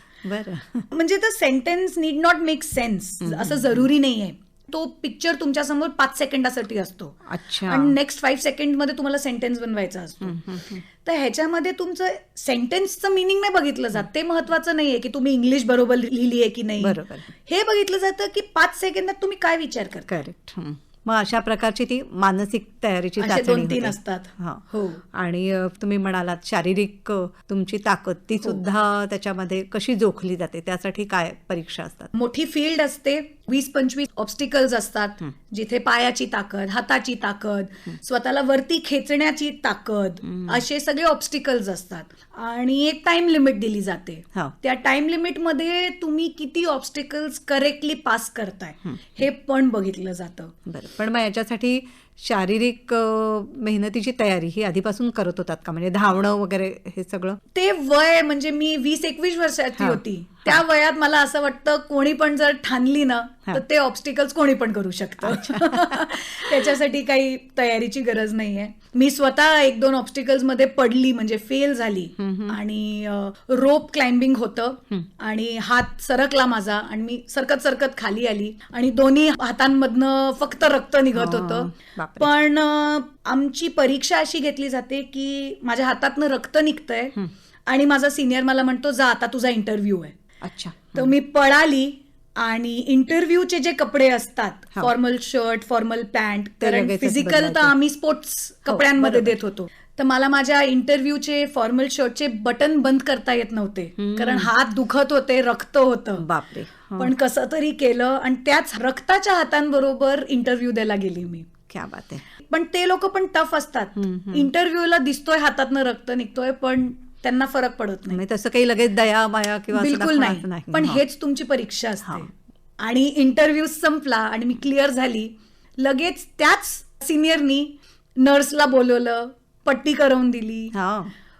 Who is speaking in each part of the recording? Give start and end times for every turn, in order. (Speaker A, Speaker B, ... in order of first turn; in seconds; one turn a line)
Speaker A: 0.2-0.9
Speaker B: 0.9-20.2
Speaker A: 3.2-3.9
Speaker A: 7.2-8.0
Speaker A: 10.2-10.8
Speaker A: 16.8-17.3
Speaker A: 20.1-32.1
Speaker B: 23.2-25.0
Speaker B: 32.1-50.5
Speaker A: 40.2-40.6
Speaker A: 50.7-57.4
Speaker B: 57.5-87.1
Speaker A: 59.8-60.6
Speaker A: 65.2-66.8
Speaker A: 72.2-72.6
Speaker A: 81.1-82.3
Speaker B: 87.7-90.2
Speaker A: 90.4-91.1
Speaker B: 90.9-106.3
Speaker A: 96.6-97.7
Speaker A: 98.7-99.3
Speaker A: 104.0-104.5
Speaker A: 106.2-107.1
Speaker B: 107.0-111.5
Speaker A: 111.7-112.2
Speaker B: 112.5-118.2
Speaker A: 114.0-114.5
Speaker A: 118.1-121.0
Speaker B: 119.7-122.3
Speaker B: 122.8-130.7
Speaker A: 130.7-131.1